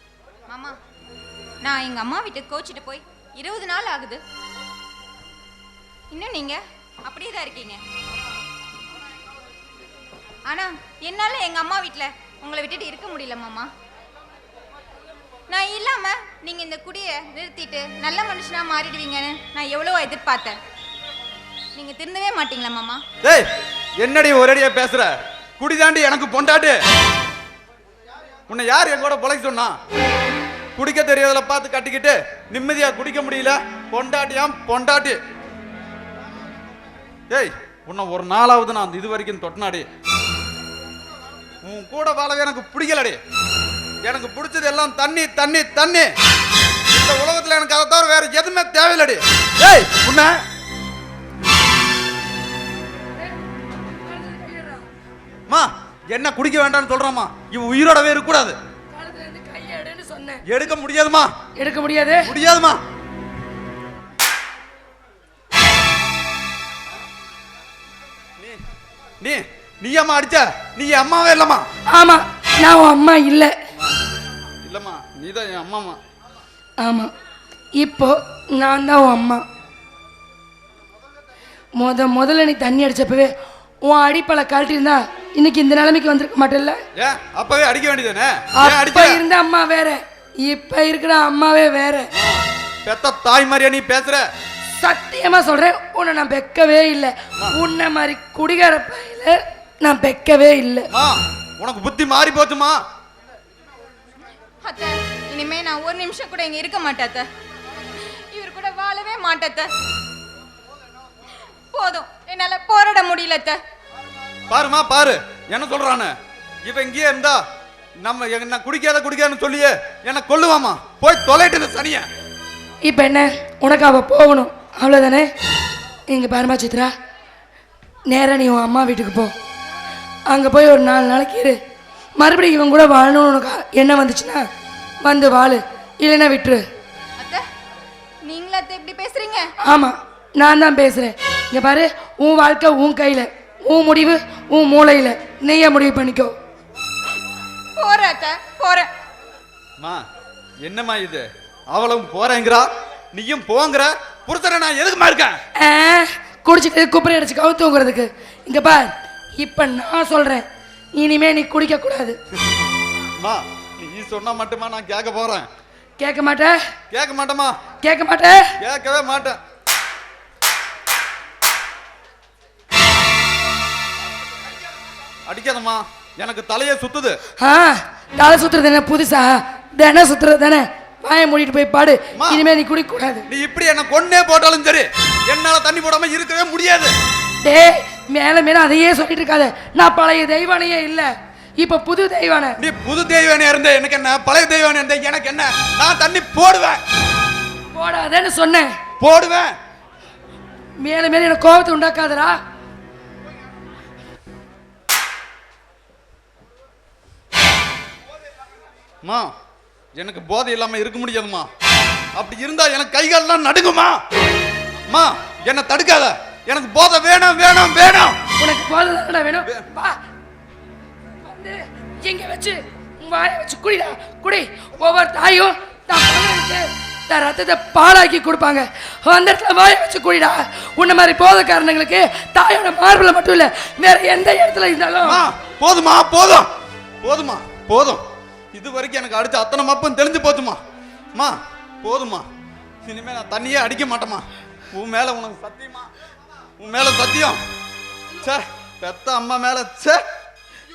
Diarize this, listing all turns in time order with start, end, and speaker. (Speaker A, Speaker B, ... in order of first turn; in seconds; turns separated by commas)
Speaker A: 0.5-0.8, Speaker A: 1.6-4.2, Speaker A: 6.1-7.8, Speaker A: 10.5-13.7, Speaker A: 15.5-20.6, Speaker A: 21.7-23.0, Speaker B: 24.0-26.8, Speaker B: 28.5-29.8, Speaker B: 30.8-35.2, Speaker B: 37.3-39.9, Speaker B: 41.6-43.2, Speaker B: 44.0-46.1, Speaker B: 46.9-50.4, Speaker C: 54.0-54.8, Speaker B: 55.5-58.5, Speaker C: 58.9-60.4, Speaker B: 60.5-61.3, Speaker C: 61.6-62.3, Speaker B: 62.2-62.8, Speaker B: 69.2-71.6, Speaker C: 71.9-73.5, Speaker B: 74.7-76.0, Speaker C: 76.8-77.1, Speaker C: 77.8-79.4, Speaker C: 81.8-83.3, Speaker C: 83.8-86.8, Speaker B: 86.9-89.2, Speaker C: 88.5-92.1, Speaker B: 92.1-94.2, Speaker C: 94.8-100.9, Speaker B: 100.9-102.8, Speaker A: 104.6-107.3, Speaker A: 108.0-109.7, Speaker A: 111.7-113.6, Speaker B: 114.5-116.1, Speaker B: 116.6-117.4, Speaker B: 118.0-122.0, Speaker C: 122.8-125.3, Speaker C: 126.1-126.9, Speaker C: 128.1-129.3, Speaker C: 130.3-131.6, Speaker C: 132.2-134.5, Speaker C: 135.0-136.6, Speaker A: 137.2-137.4, Speaker A: 138.2-139.5, Speaker C: 139.6-146.3, Speaker A: 147.8-148.9, Speaker B: 150.6-155.4, Speaker C: 155.6-162.2, Speaker B: 163.2-165.5, Speaker C: 166.0-166.5, Speaker B: 166.9-167.5, Speaker C: 167.8-168.5, Speaker B: 168.6-169.4, Speaker B: 175.2-177.2, Speaker C: 177.4-183.2, Speaker B: 182.1-182.4, Speaker B: 183.3-186.9, Speaker C: 187.4-192.6, Speaker B: 192.6-196.8, Speaker C: 197.7-198.7, Speaker B: 199.0-199.5, Speaker C: 200.8-202.4, Speaker B: 209.0-209.3, Speaker B: 209.9-211.5, Speaker B: 212.2-214.0, Speaker B: 214.9-218.2, Speaker C: 218.4-220.0, Speaker C: 221.2-235.2, Speaker B: 235.0-236.5, Speaker B: 237.0-238.0, Speaker B: 238.5-240.6, Speaker B: 241.1-242.2, Speaker B: 242.8-245.9, Speaker B: 246.6-247.4, Speaker B: 248.2-250.0